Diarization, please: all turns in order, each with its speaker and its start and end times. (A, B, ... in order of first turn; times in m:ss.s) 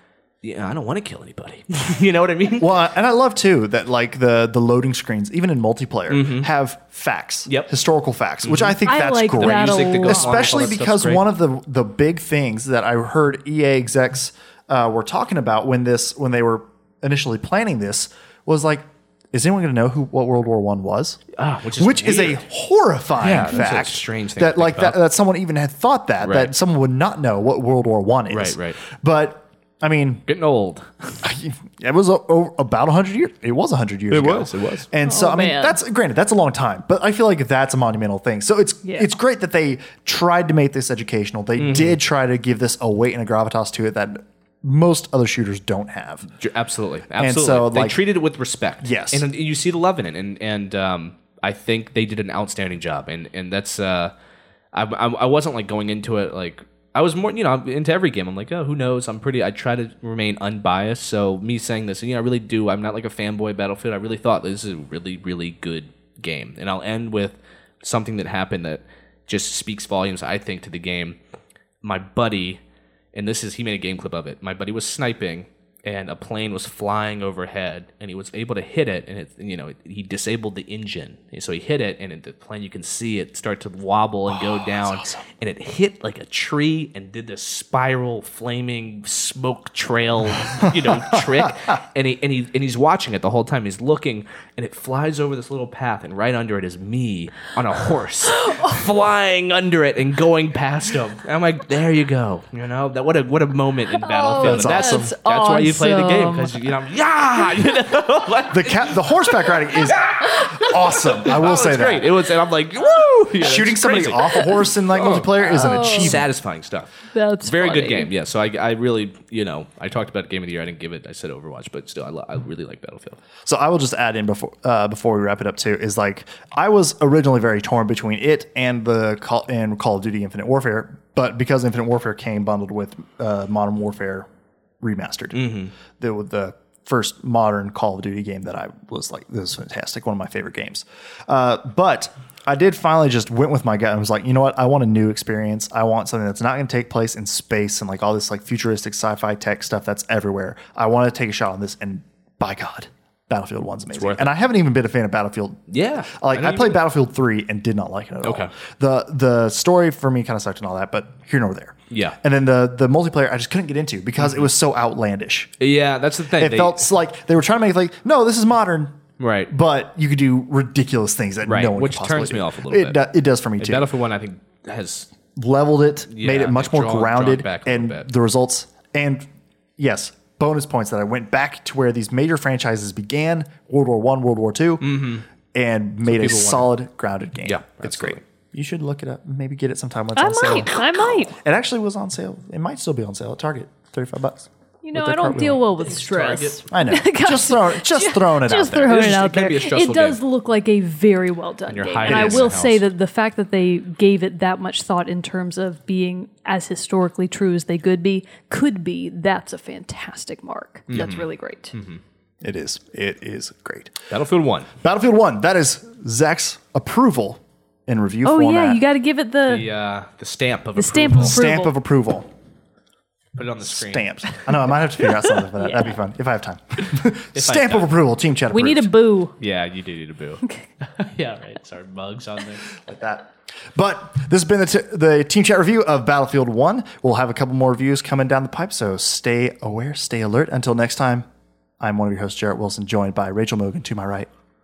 0:00.4-0:02.7 A
0:02.6-0:21.2 B
0:06.1-0:06.5 A
0:07.5-0:07.7 A
0:08.4-0:08.8 A
0:08.8-0:10.8 C
0:09.4-0:11.2 A
0:21.4-0:22.4 A
0:21.8-0:30.2 B
0:23.2-0:25.0 A
0:26.2-0:26.5 A
0:28.3-0:28.8 A
0:30.2-0:31.2 A
0:31.2-0:46.3 B
0:34.1-0:34.9 A
0:35.0-0:35.8 C
0:38.8-0:39.1 C
0:41.6-0:42.0 A
0:46.3-0:54.1 A
0:47.2-0:48.0 B
0:48.8-0:49.3 B
0:54.7-1:11.2 A
1:11.8-1:12.6 A
1:13.1-1:49.0 A
1:24.3-1:25.3 B
1:31.0-1:31.5 B
1:44.0-1:46.7 C
1:44.3-1:45.2 B
1:48.5-1:52.1 B
1:49.7-1:50.5 A
1:51.1-2:03.2 A
1:53.4-1:56.3 B
1:55.4-1:56.3 C
1:57.1-1:58.1 C
2:03.5-2:14.3 B
2:14.8-2:35.6 B
2:15.3-2:15.7 A
2:33.9-2:34.3 A
2:35.7-2:36.8 A
2:36.2-2:45.5 B
2:38.2-2:38.5 A
2:41.9-2:42.2 A
2:44.2-2:44.5 A
2:45.6-2:46.9 A
2:46.4-2:49.0 B
2:49.2-2:49.5 A
2:49.5-2:53.9 B
2:51.4-2:53.0 A
2:53.6-2:55.1 A
2:55.4-2:59.3 B
2:56.1-2:58.1 A
2:59.8-3:15.7 B
3:04.8-3:05.2 A
3:06.0-3:06.8 A
3:07.4-3:08.2 A
3:10.2-3:11.4 C
3:14.8-3:31.7 C
3:15.8-3:16.6 A
3:16.7-3:19.2 B
3:18.9-3:20.2 A
3:21.7-3:22.8 A
3:22.0-3:22.6 B
3:30.9-3:32.0 A
3:32.4-3:34.0 B
3:34.1-3:34.7 A
3:34.8-3:38.8 B
3:38.2-3:39.6 C
3:39.5-3:41.4 A
3:40.8-3:41.7 C
3:41.2-3:42.3 B
3:43.4-3:44.4 A
3:43.6-3:48.9 B
3:45.1-3:46.0 C
3:47.3-3:47.9 A
3:48.5-3:49.4 C
3:49.4-3:52.7 A
3:52.8-4:01.3 B
4:01.8-4:04.3 B